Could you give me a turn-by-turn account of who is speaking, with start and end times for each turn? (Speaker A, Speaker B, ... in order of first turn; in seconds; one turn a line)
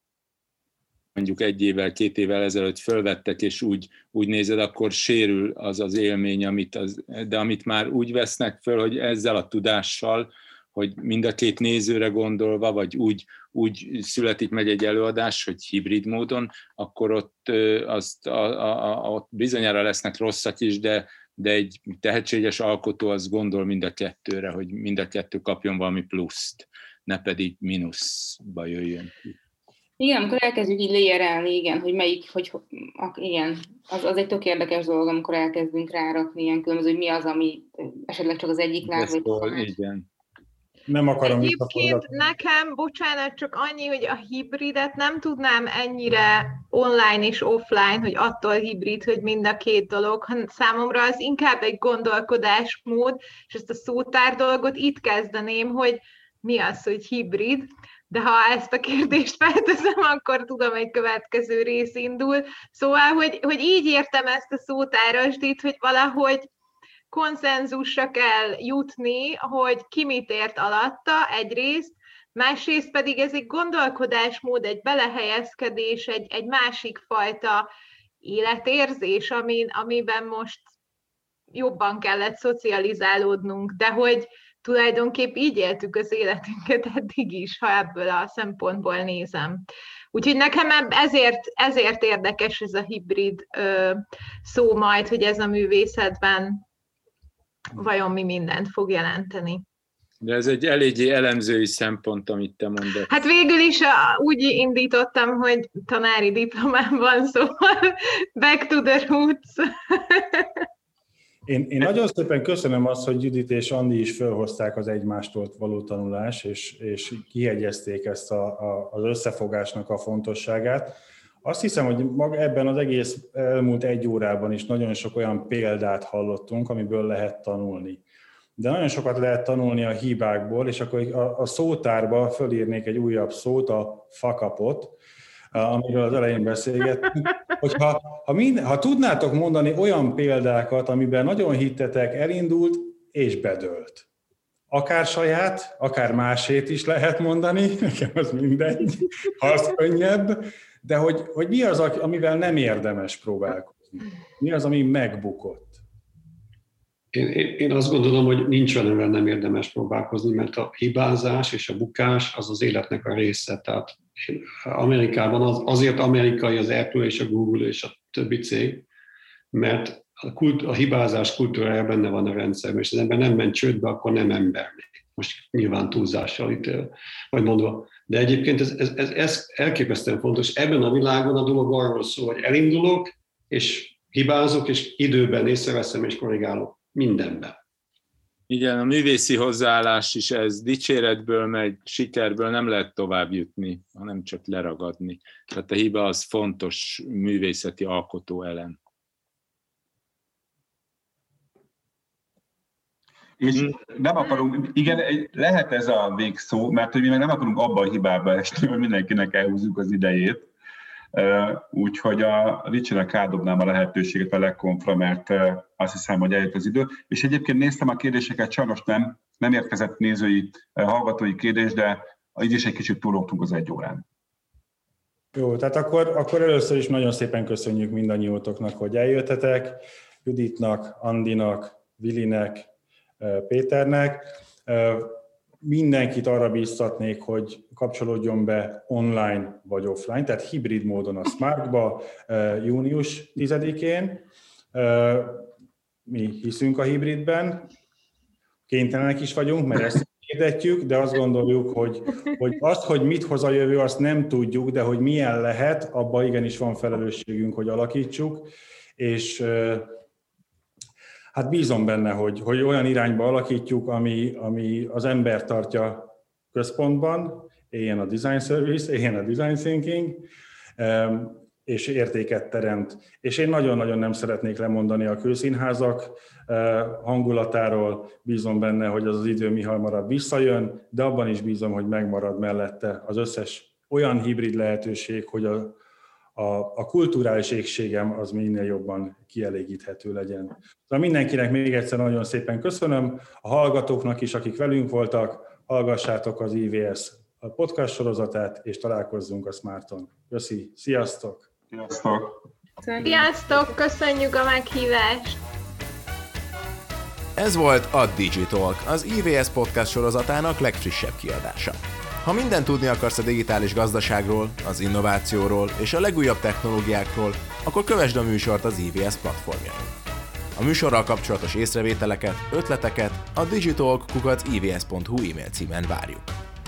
Speaker A: 1.1-29.3
Speaker B: 30.0-39.7
Speaker A: 38.9-40.0
Speaker C: 40.9-42.1
Speaker D: 41.2-66.5
Speaker D: 67.1-77.7
Speaker D: 78.2-80.6
Speaker D: 81.5-89.6
Speaker D: 90.1-96.6
Speaker D: 97.7-99.6
Speaker A: 100.2-103.2
Speaker D: 103.1-110.6
Speaker C: 111.5-128.0
Speaker C: 128.6-135.0
Speaker C: 135.5-144.0
Speaker C: 144.7-155.8
Speaker E: 157.1-168.9
Speaker E: 169.5-187.6
Speaker A: 188.5-198.8
Speaker F: 203.4-210.5
Speaker F: 211.1-224.0
Speaker C: 225.3-232.7
Speaker C: 233.2-245.5
Speaker C: 246.1-247.7
Speaker C: 248.7-260.0
Speaker C: 261.3-285.8
Speaker C: 286.4-301.5
Speaker F: 301.7-302.4
Speaker B: 302.8-303.3
Speaker D: 303.0-305.4
Speaker G: 307.4-319.9
Speaker G: 320.6-326.3